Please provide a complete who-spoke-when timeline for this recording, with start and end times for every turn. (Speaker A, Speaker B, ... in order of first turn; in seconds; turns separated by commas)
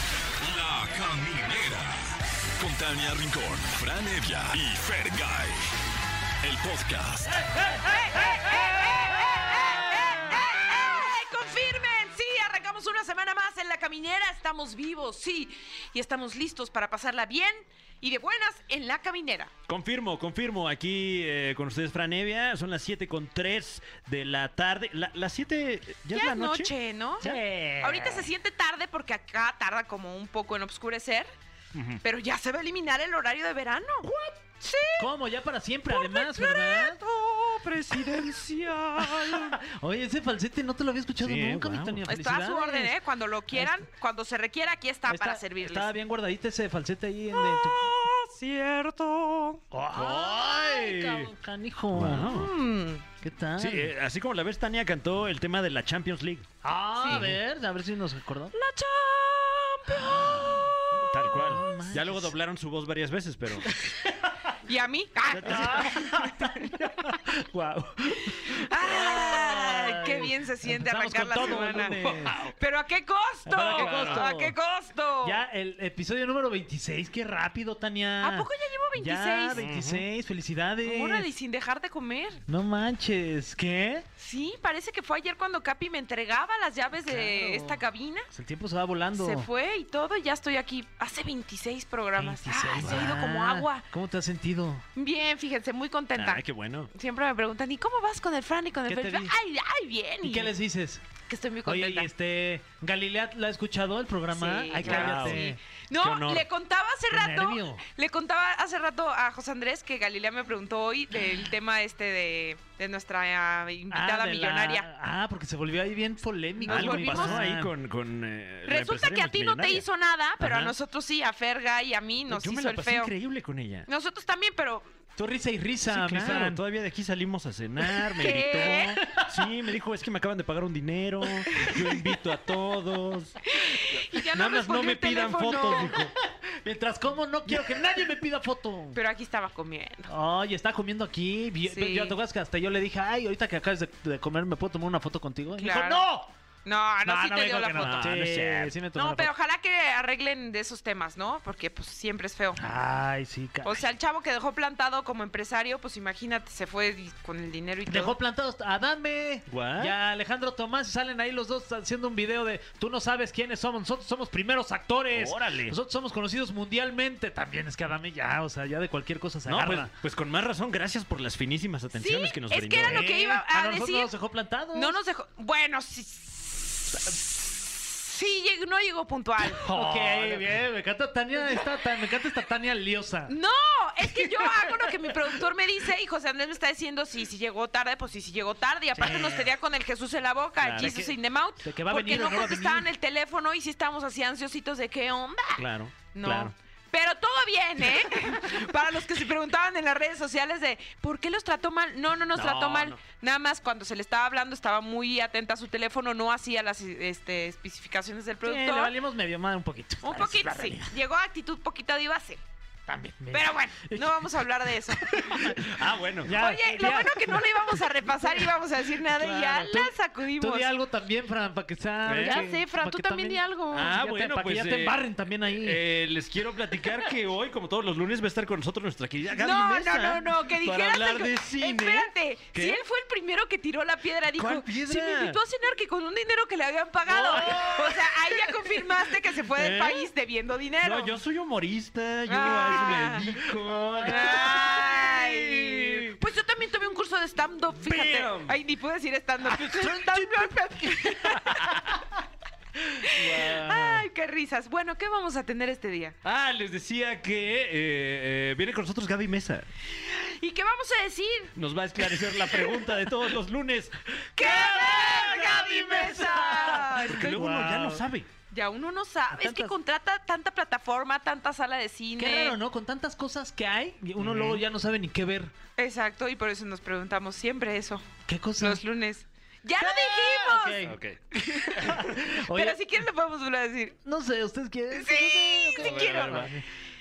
Speaker A: 0.4-2.0, Speaker A: 2.6-5.6, Speaker A: 6.4-7.4, Speaker B: 7.8-19.5, Speaker C: 19.7-27.4, Speaker B: 26.1-27.3, Speaker D: 27.2-28.3, Speaker B: 27.8-31.3, Speaker C: 31.7-32.0, Speaker B: 32.0-34.1, Speaker C: 34.1-34.3, Speaker B: 34.6-35.1, Speaker D: 35.0-37.0, Speaker B: 35.9-39.1, Speaker C: 37.6-39.5, Speaker D: 39.0-43.0, Speaker C: 41.2-42.0, Speaker B: 42.1-45.9, Speaker D: 43.5-43.9, Speaker D: 45.0-47.9, Speaker B: 47.3-49.6, Speaker D: 49.7-52.4, Speaker C: 49.9-51.3, Speaker C: 51.9-52.5, Speaker B: 52.1-53.0, Speaker D: 53.2-53.9, Speaker C: 53.6-56.5, Speaker D: 56.6-58.5, Speaker B: 57.0-57.2, Speaker C: 57.1-57.4, Speaker B: 58.5-61.7, Speaker D: 59.9-60.8, Speaker C: 61.0-63.7, Speaker D: 61.3-62.3, Speaker B: 64.7-66.7, Speaker C: 65.3-66.0, Speaker D: 65.4-72.4, Speaker B: 68.2-75.4, Speaker C: 71.5-72.5, Speaker D: 73.5-74.5, Speaker C: 73.7-74.2, Speaker D: 75.2-81.3, Speaker B: 78.2-79.6, Speaker C: 79.5-80.0, Speaker B: 80.8-82.4, Speaker D: 82.5-84.0, Speaker B: 84.2-88.3, Speaker D: 87.0-89.5, Speaker B: 89.2-93.8, Speaker D: 92.2-94.8, Speaker B: 95.0-100.5, Speaker C: 96.2-96.9, Speaker D: 98.8-99.3, Speaker D: 100.2-101.0, Speaker B: 101.3-102.1, Speaker D: 101.6-105.6, Speaker B: 104.3-114.9, Speaker C: 104.7-105.4, Speaker C: 106.0-106.5, Speaker D: 107.1-107.8, Speaker D: 113.9-117.7, Speaker B: 116.6-117.5, Speaker C: 116.7-119.8, Speaker B: 118.7-123.1, Speaker C: 120.4-120.7, Speaker C: 122.3-123.9, Speaker B: 123.9-124.9, Speaker D: 125.2-126.6, Speaker C: 125.9-133.4, Speaker B: 128.2-129.0, Speaker D: 129.0-129.5, Speaker B: 133.4-135.9, Speaker C: 134.1-136.1, Speaker D: 135.7-139.0, Speaker B: 138.9-140.1, Speaker D: 140.1-146.3, Speaker B: 141.7-142.2, Speaker B: 145.6-146.0, Speaker B: 146.7-148.1, Speaker D: 147.0-149.3, Speaker C: 147.8-148.7, Speaker B: 148.9-152.6, Speaker D: 152.6-153.8, Speaker B: 153.6-158.1, Speaker D: 157.9-169.9, Speaker C: 159.5-159.9, Speaker C: 165.1-165.8, Speaker C: 169.5-173.1, Speaker B: 171.9-174.1, Speaker D: 172.8-175.0, Speaker B: 174.7-179.6, Speaker C: 179.5-180.4, Speaker D: 179.6-183.3, Speaker B: 183.3-208.9, Speaker D: 184.1-184.7, Speaker D: 188.9-189.5, Speaker C: 190.6-190.9, Speaker D: 190.7-192.9, Speaker C: 195.6-196.5, Speaker C: 202.3-203.0, Speaker D: 208.4-210.9, Speaker B: 210.0-212.4, Speaker D: 212.9-215.7, Speaker B: 213.3-215.4, Speaker C: 215.5-216.3, Speaker D: 216.2-225.8, Speaker B: 216.3-220.7, Speaker C: 222.0-222.4, Speaker B: 222.1-223.9, Speaker C: 223.7-232.8, Speaker B: 229.4-241.2, Speaker C: 234.4-235.4, Speaker C: 237.1-238.0, Speaker D: 237.3-237.8, Speaker C: 239.5-240.1, Speaker C: 240.8-246.2, Speaker B: 242.3-243.3, Speaker D: 242.8-243.5, Speaker B: 244.0-251.6, Speaker C: 247.8-248.6, Speaker C: 249.4-251.9, Speaker B: 253.0-256.1, Speaker C: 253.1-254.0, Speaker C: 256.2-259.7, Speaker B: 259.9-261.5, Speaker C: 261.5-268.3, Speaker B: 264.4-267.4, Speaker D: 264.7-268.0, Speaker B: 268.5-272.6, Speaker D: 269.3-269.7, Speaker D: 272.2-275.5, Speaker C: 274.2-274.6, Speaker B: 275.8-278.1, Speaker D: 278.3-278.8, Speaker B: 278.6-280.8, Speaker D: 279.8-281.0, Speaker C: 280.9-281.2, Speaker B: 281.4-281.8, Speaker D: 281.6-282.8, Speaker C: 281.8-282.1, Speaker B: 282.5-283.9, Speaker D: 284.0-286.6, Speaker B: 284.9-286.5, Speaker C: 285.8-286.5